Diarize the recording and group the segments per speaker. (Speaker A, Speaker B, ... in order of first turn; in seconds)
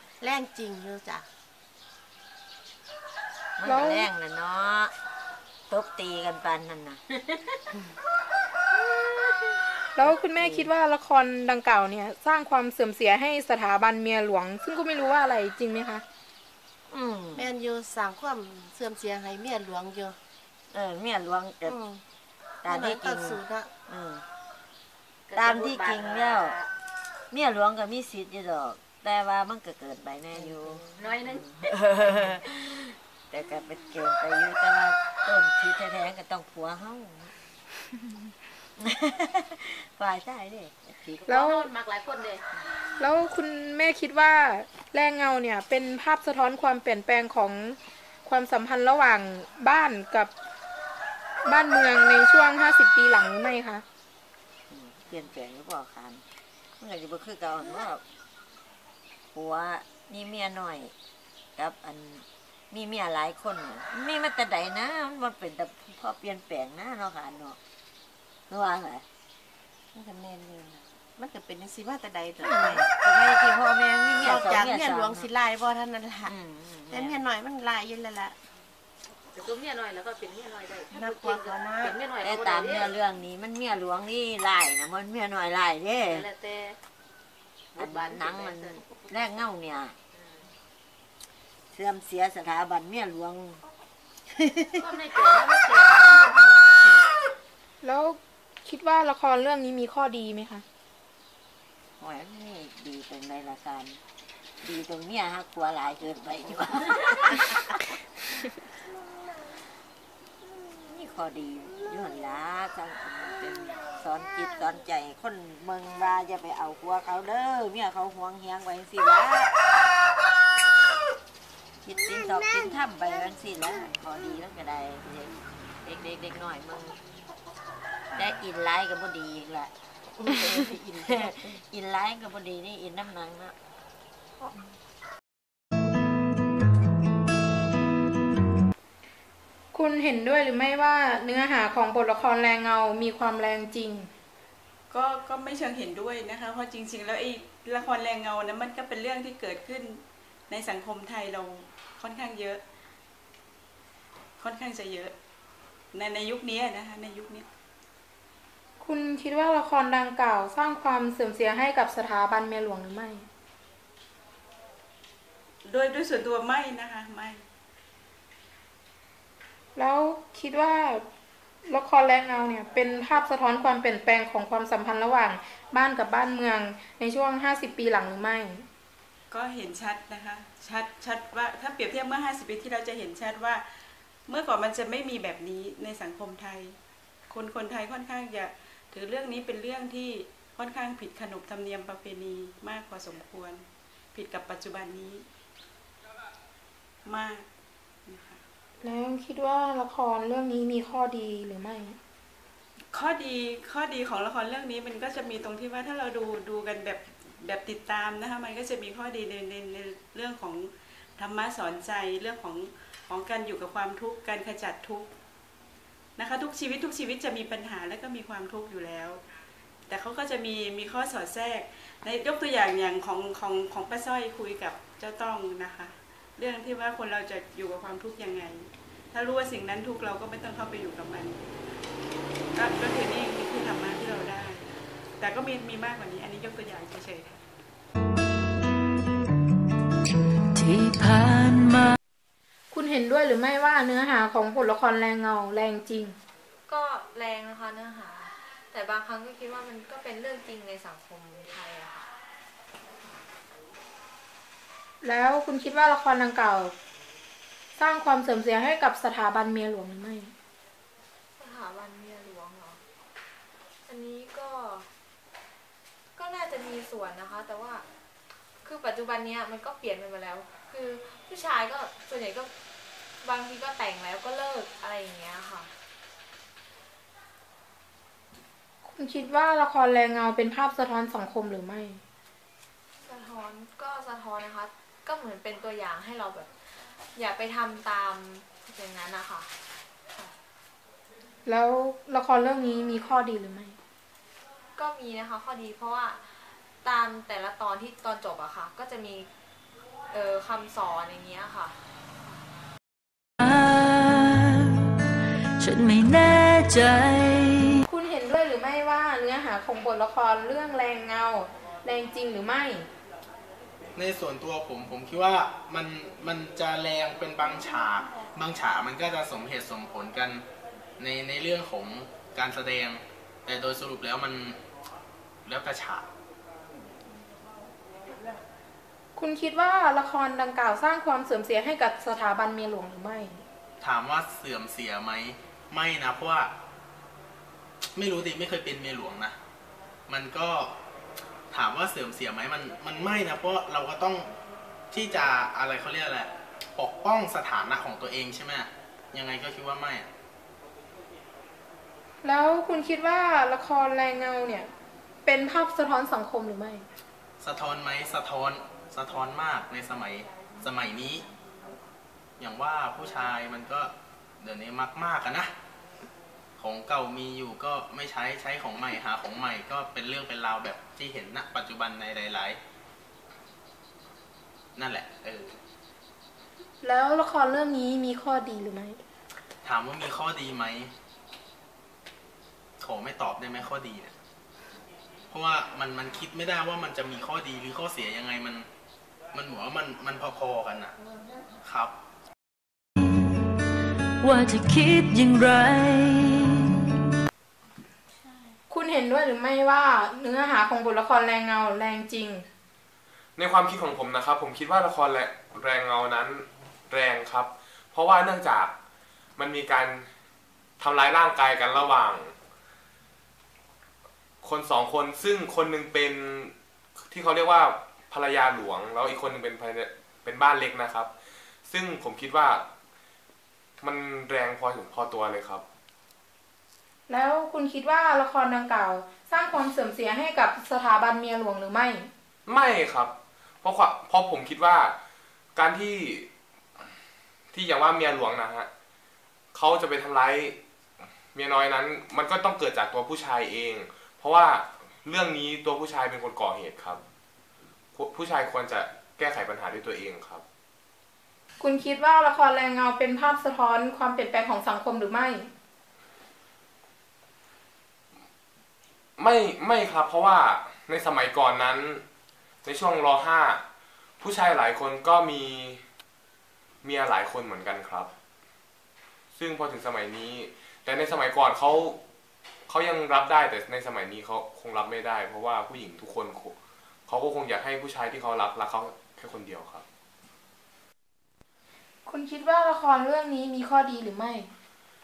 Speaker A: 0.2-1.3, 17.4-20.2, 21.7-22.0, 22.6-23.7, 69.9-72.9, 74.2-76.3, 76.9-78.4, 80.8-82.1
Speaker B: 3.6-4.9, 5.7-7.0, 10.3-10.7, 16.9-17.5, 20.7-21.8, 22.6-24.2, 25.4-26.6, 27.3-37.4, 38.8-41.5, 54.7-56.2, 56.8-58.0, 59.3-60.9, 61.6-67.6, 68.5-69.0, 72.4-75.3, 76.2-77.2, 82.2-86.3, 87.8-90.0, 91.7-93.6, 94.4-94.9, 102.0-104.0, 104.6-107.5, 110.9-119.6, 121.8-127.0, 128.2-133.6
Speaker C: 3.6-4.1, 9.9-16.0, 41.3-41.7, 43.0-50.3, 51.5-53.8, 97.8-100.7, 139.7-144.1, 158.8-163.3, 169.8-171.0, 171.7-178.7, 198.8-202.0, 242.7-246.2, 255.0-256.7, 257.8-260.3, 278.8-282.0, 291.4-293.8, 307.9-312.9, 329.2-333.4, 352.2-354.7, 355.3-356.9, 376.8-379.0, 398.7-402.5, 427.1-432.1, 451.6-455.5, 482.1-484.5
Speaker D: 25.3-26.7, 30.5-31.5, 41.3-42.4, 79.3-82.9, 86.1-86.8, 87.8-88.8, 94.8-96.8
Speaker E: 147.7-148.0, 148.8-149.7, 156.7-157.2, 165.7-167.3, 179.4-183.5, 184.4-186.5, 187.4-188.4, 188.9-193.5, 194.2-194.6, 202.9-206.9, 207.6-210.5, 211.2-211.6, 214.2-215.0, 217.0-219.0, 220.9-221.2, 223.1-225.2, 226.4-228.2, 229.4-231.2, 232.8-233.6
Speaker F: 240.5-242.0, 303.4-304.9, 305.6-307.8, 394.2-396.7
Speaker G: 246.7-252.1, 261.4-262.8, 263.9-264.9, 266.2-267.9, 268.6-272.5, 273.2-275.7, 283.1-289.5, 294.8-299.3, 300.1-302.4
Speaker H: 314.0-320.4, 321.0-324.6, 325.5-326.1, 333.8-336.5, 338.0-339.4, 340.1-340.7, 341.5-344.3, 344.9-350.1, 357.4-361.3, 362.4-365.5, 366.6-372.6, 374.8-375.6, 379.6-380.9, 382.8-384.1, 385.3-388.7, 389.3-390.9, 391.6-391.9
Speaker I: 403.4-408.7, 409.4-410.1, 410.8-412.3, 414.4-416.5, 417.1-421.1, 421.7-422.6, 423.8-425.6, 432.5-434.9, 435.6-436.3, 437.5-438.7, 439.5-440.6, 441.3-447.0, 447.9-450.4, 459.2-462.0, 462.6-463.6, 464.2-465.8, 466.8-468.1, 469.4-472.0, 472.7-476.6, 477.1-479.8